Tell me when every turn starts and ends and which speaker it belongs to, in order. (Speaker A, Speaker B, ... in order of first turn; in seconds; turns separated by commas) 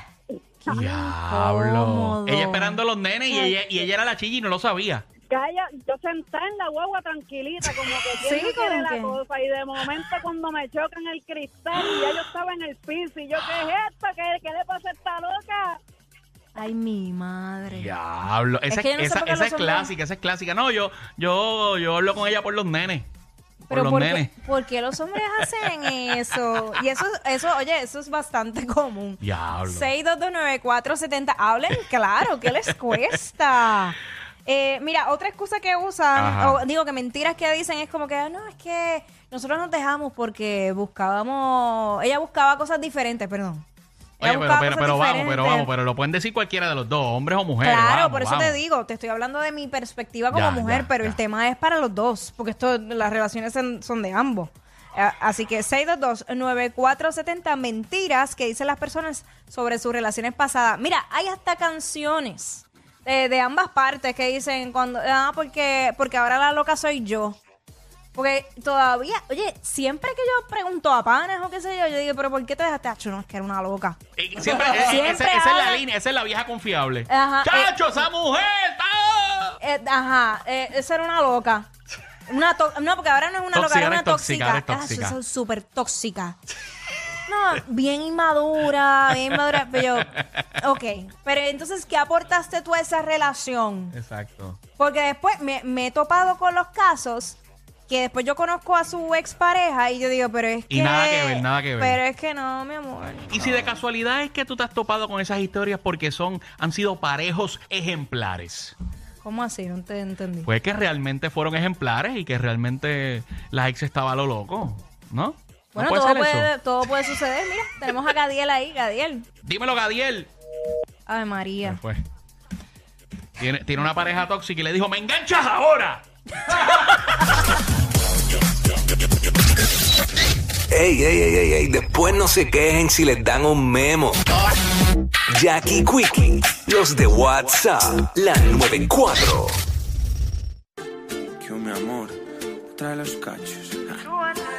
Speaker A: 0.7-3.6, Speaker B: 0.7-5.0, Speaker C: 5.3-15.8, Speaker A: 8.2-9.2, Speaker B: 11.8-12.2, Speaker A: 16.6-17.9, Speaker B: 17.7-23.1, Speaker A: 18.7-19.9, Speaker B: 23.7-24.3, Speaker A: 23.7-43.6, Speaker B: 29.2-29.9, Speaker B: 36.1-36.6, Speaker B: 44.2-48.6, Speaker A: 44.2-45.7, Speaker A: 47.6-67.4, Speaker B: 50.3-51.2, Speaker A: 68.2-75.8, Speaker B: 74.2-79.6, Speaker A: 77.1-78.0, Speaker A: 79.6-81.7, Speaker A: 82.3-86.4, Speaker B: 83.5-85.2, Speaker A: 87.3-93.9, Speaker B: 90.1-90.5, Speaker B: 93.9-94.6, Speaker A: 94.8-97.4, Speaker A: 97.9-103.8, Speaker B: 100.7-102.0, Speaker B: 103.3-108.7, Speaker A: 109.2-110.5, Speaker B: 110.5-116.5, Speaker A: 115.8-119.3, Speaker B: 119.5-120.3, Speaker A: 121.1-121.8, Speaker B: 121.6-122.0, Speaker B: 123.4-127.5, Speaker D: 130.7-134.2, Speaker D: 135.3-139.6, Speaker E: 141.4-144.0